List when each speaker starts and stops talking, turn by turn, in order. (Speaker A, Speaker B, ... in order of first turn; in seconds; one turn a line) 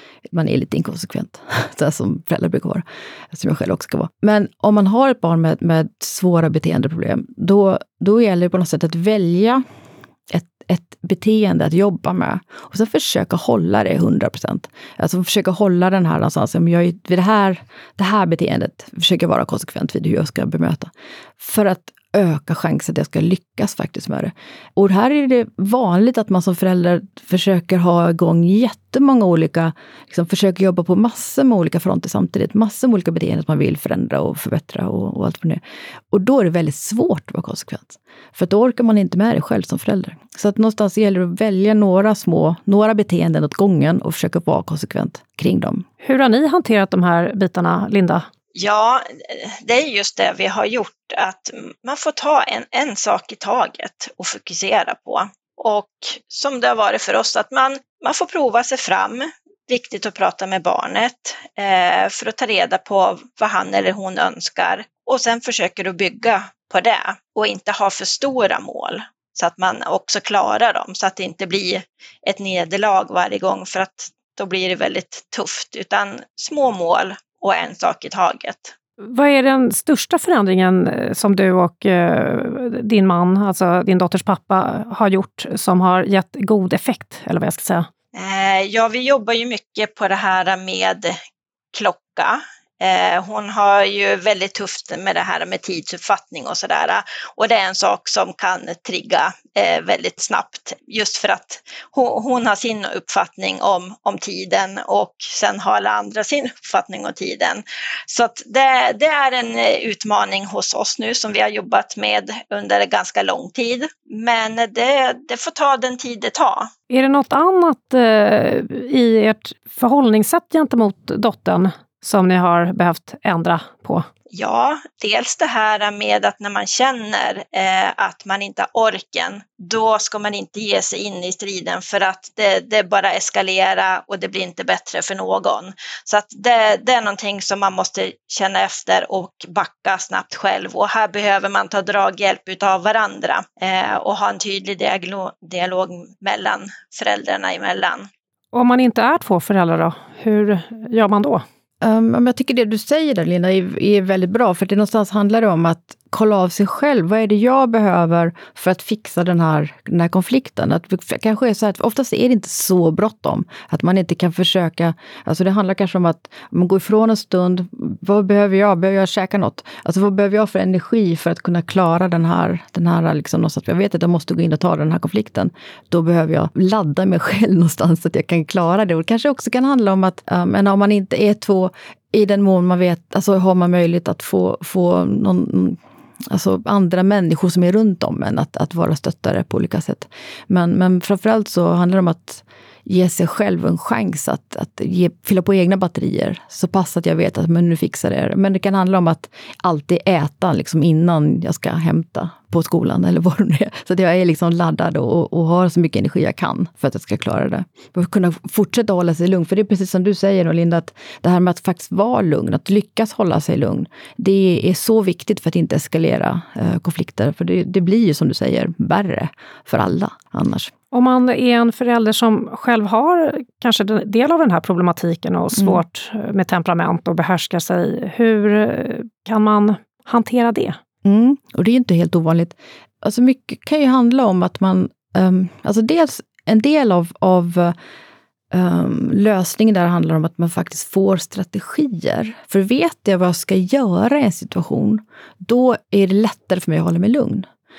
Speaker A: 0.3-9.6
Speaker A: 10.3-45.9
Speaker B: 46.0-48.3
Speaker C: 48.5-78.7
Speaker B: 79.0-87.9
Speaker C: 88.1-91.2
Speaker C: 91.7-116.7
Speaker B: 116.9-124.1
Speaker C: 124.3-148.1
Speaker B: 148.5-151.4
Speaker A: 151.8-220.7
Speaker B: 220.9-230.8
Speaker A: 225.6-225.8
Speaker A: 231.0-237.7
Speaker A: 238.5-247.4